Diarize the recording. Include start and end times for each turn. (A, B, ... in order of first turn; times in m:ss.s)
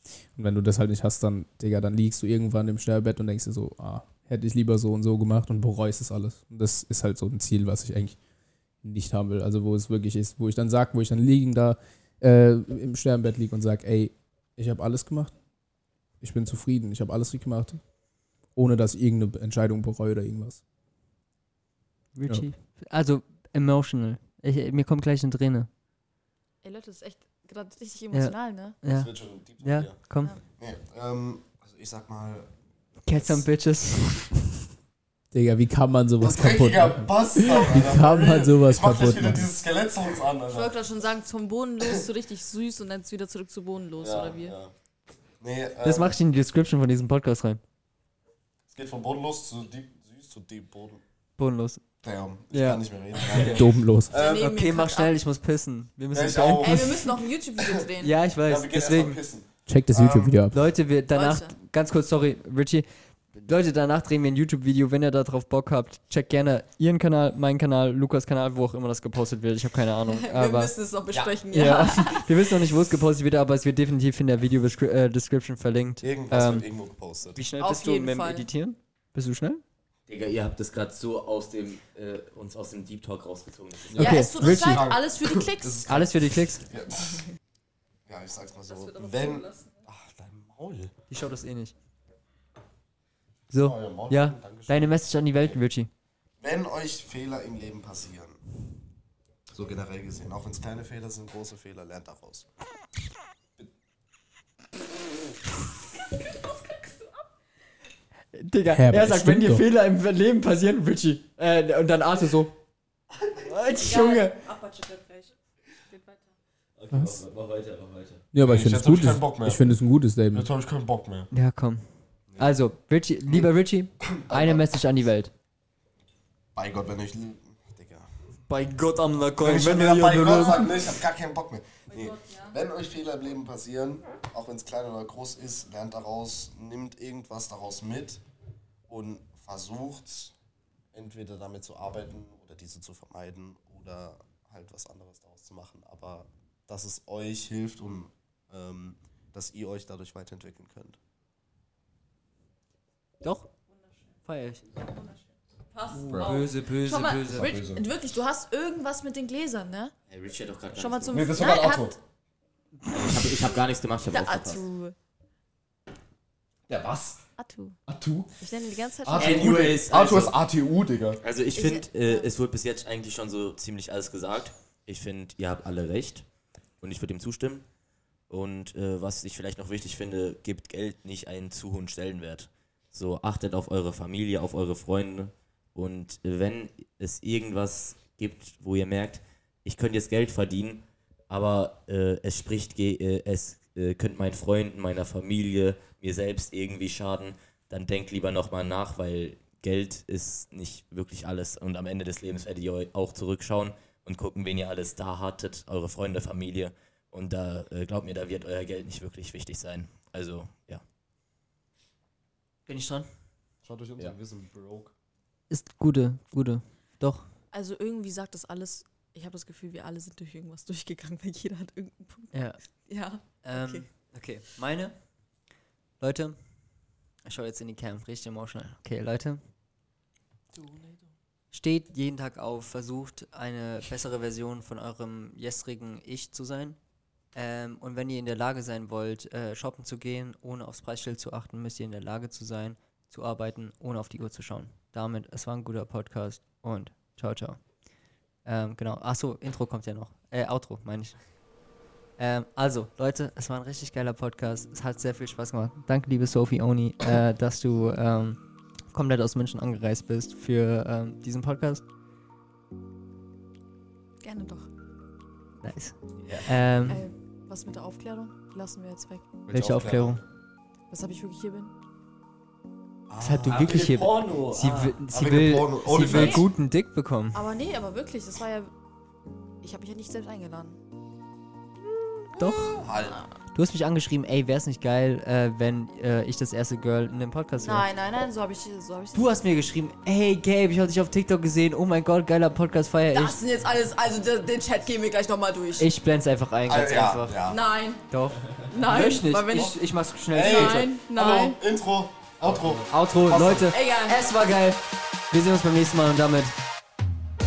0:00.3-0:08.2 A
0:08.8-0:15.4 A
0:16.2-0:17.8 A
0:18.6-0:20.6 A
0:22.1-0:25.7 B
0:26.6-0:28.8 C
0:28.1-0:30.3 B
0:28.8-0:32.5 D
0:33.0-0:34.3 B
0:35.3-0:39.5 A
0:36.2-0:40.8 D
0:40.4-0:44.5 C
0:44.0-0:44.7 D
0:45.4-0:46.2 D
0:45.8-0:47.6 B
0:48.7-0:51.0 D
0:51.4-0:51.8 B
0:52.0-0:54.5 D
0:52.5-0:53.6 B
0:53.4-0:54.1 A
0:54.1-0:55.2 C
0:54.2-0:57.1 B
0:56.1-0:57.8 D
0:56.6-0:58.2 C
0:58.0-0:59.2 B
0:58.4-1:00.4 D
0:59.7-1:00.6 A
1:00.5-1:10.7 B
1:01.1-1:01.5 C
1:10.1-1:12.5 C
1:11.5-1:16.7 B
1:16.0-1:17.4 D
1:17.3-1:19.6 B
1:17.6-1:18.5 C
1:20.1-1:24.1 E
1:23.9-1:26.1 D
1:23.9-1:24.8 B
1:23.9-1:25.9 C
1:25.8-1:26.7 B
1:26.6-1:27.2 D
1:28.1-1:30.9 D
1:28.7-1:29.8 C
1:31.1-1:31.7 B
1:33.5-1:35.9 B
1:33.5-1:35.0 D
1:36.4-1:38.4 D
1:39.5-1:42.4 D
1:48.3-1:52.5 B
1:48.7-1:49.6 A
1:53.4-1:54.4 B
1:53.7-1:55.3 C
1:55.9-1:56.2 C
1:56.8-1:58.2 E
1:58.3-2:00.5 A
1:58.4-1:59.7 D
2:00.3-2:01.3 D
2:01.3-2:01.8 B
2:02.4-2:05.3 B
2:03.3-2:04.6 D
2:06.5-2:08.1 D
2:08.5-2:10.9 B
2:09.4-2:18.2 D
2:11.9-2:12.6 C
2:18.9-2:20.3 D
2:20.9-2:31.0 D
2:33.2-2:33.5 B
2:34.2-2:34.6 B
2:35.7-2:39.9 C
2:35.9-2:36.4 D
2:36.1-2:37.6 B
2:37.3-2:37.9 D
2:40.1-2:41.3 E
2:40.7-2:42.0 C
2:41.1-2:42.0 D
2:42.9-2:44.6 E
2:44.1-2:44.9 C
2:46.7-2:47.2 D
2:47.4-2:47.8 C
2:47.9-2:48.4 D
2:48.4-2:49.6 C
2:49.0-2:51.2 D
2:49.2-2:50.4 E
2:51.2-2:56.2 E
2:51.6-2:52.3 C
2:56.8-2:57.6 E
2:58.3-3:30.8 E
3:32.7-3:33.1 B
3:33.6-3:34.9 D
3:35.5-3:37.3 B
3:37.5-3:43.9 C
3:42.3-3:42.6 B
3:43.4-3:45.0 B
3:46.0-3:46.4 B
3:47.2-3:49.4 B
3:50.5-3:51.0 C
3:51.5-3:56.8 B
3:57.3-4:07.6 B
4:08.4-4:11.2 B
4:12.2-4:18.4 B
4:18.9-4:21.8 B
4:24.2-4:24.7 C
4:25.6-4:27.0 B
4:26.9-4:29.4 C
4:29.5-4:30.2 B
4:29.5-4:30.2 D
4:30.9-4:31.7 C
4:33.1-4:33.8 D
4:33.2-4:37.4 B
4:33.5-4:35.0 E
4:35.1-4:36.5 D
4:36.0-4:36.5 C
4:37.3-4:38.7 C
4:39.6-4:40.8 C
4:42.4-4:42.8 B
4:42.8-4:43.2 D
4:42.8-4:43.3 C
4:43.5-4:47.8 B
4:47.6-4:49.3 C
4:49.1-4:53.4 B
4:53.1-4:55.9 C
4:55.8-4:57.4 B
4:56.7-4:57.6 D
4:57.5-4:58.0 C
4:58.1-5:00.9 B
4:58.7-4:59.8 C
5:00.3-5:03.7 D
5:00.3-5:01.6 C
5:02.8-5:06.5 B
5:03.6-5:04.2 C